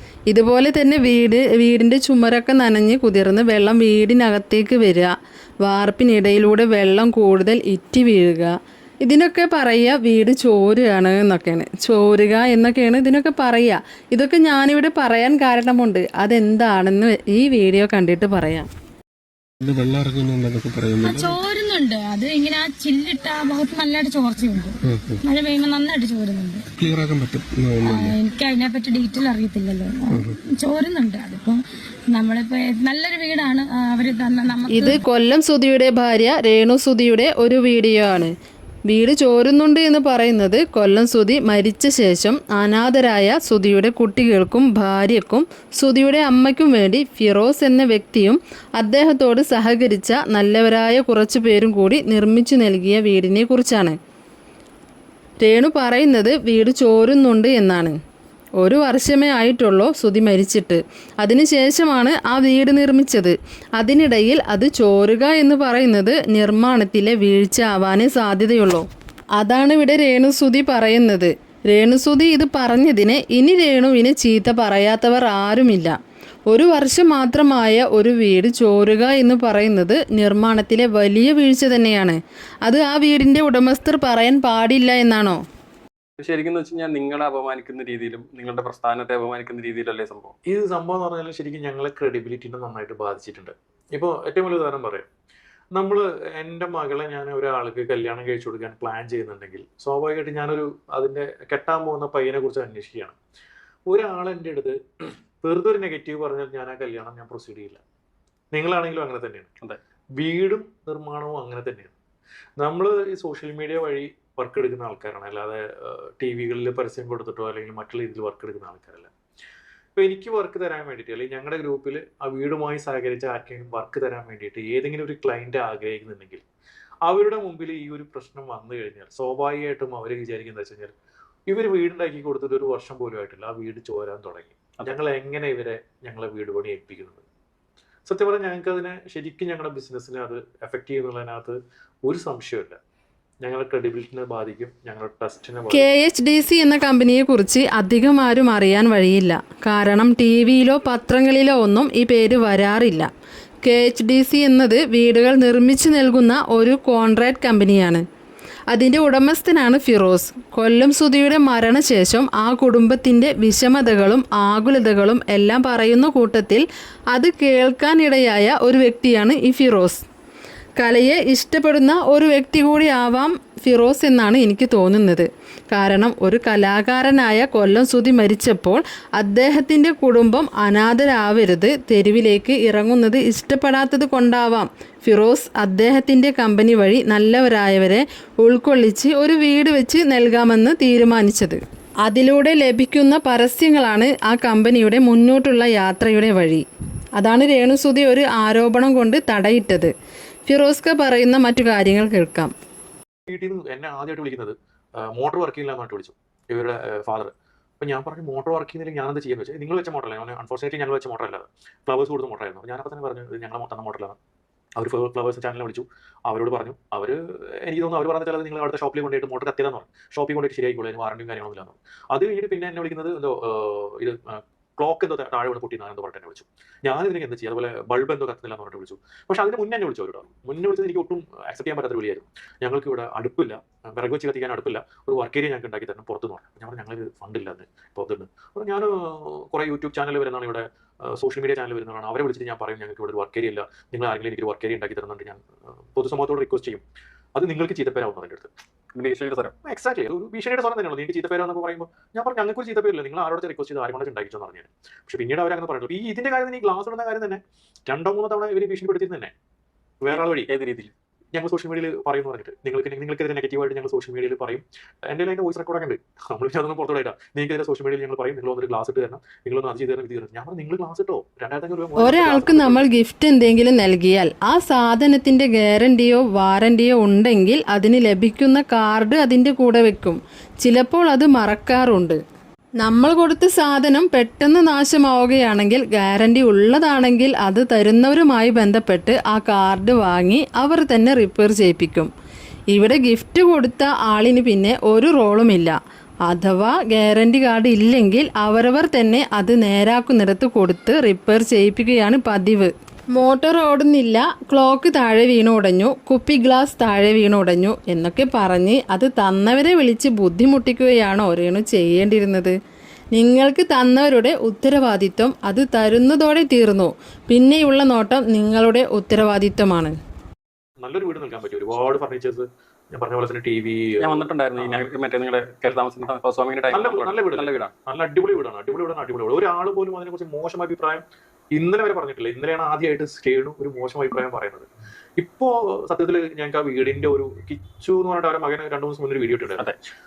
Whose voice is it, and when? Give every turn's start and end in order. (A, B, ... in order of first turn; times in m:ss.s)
0:00.3-0:18.7 A
0:19.6-0:21.4 B
0:21.0-0:26.6 C
0:24.9-0:25.2 B
0:26.8-0:28.2 B
0:27.8-0:31.6 C
0:30.1-0:30.4 B
0:32.1-0:35.0 C
0:34.7-0:38.3 A
0:38.9-0:54.0 A
0:55.4-0:58.0 A
0:58.6-1:08.9 A
1:09.4-1:16.0 A
1:16.5-1:25.4 A
1:26.2-1:30.3 D
1:30.4-1:35.1 E
1:35.7-1:43.2 E
1:43.9-1:47.8 E
1:48.5-1:49.5 E
1:50.2-1:51.9 E
1:52.6-1:59.1 E
2:00.0-2:06.4 E
2:07.1-2:10.9 E
2:11.5-2:17.2 E
2:18.1-2:22.8 E
2:23.4-2:25.9 E
2:25.7-2:33.1 A
2:33.6-2:38.0 A
2:38.7-2:50.0 A
2:50.8-3:16.6 A
3:17.2-3:19.9 A
3:20.5-3:22.5 A
3:23.3-3:34.2 E
3:34.8-4:05.4 E
4:05.9-4:06.8 E
4:07.4-4:08.5 E
4:08.9-4:09.5 D
4:09.6-4:19.3 E
4:20.0-4:20.5 E
4:20.1-4:20.9 D
4:21.3-4:32.9 E
4:32.0-4:42.2 A
4:42.8-4:52.1 A
4:52.7-5:12.5 A
5:13.1-5:19.9 A
5:20.8-5:24.9 E
5:24.0-5:27.7 D
5:26.7-5:31.0 E
5:31.5-5:39.7 E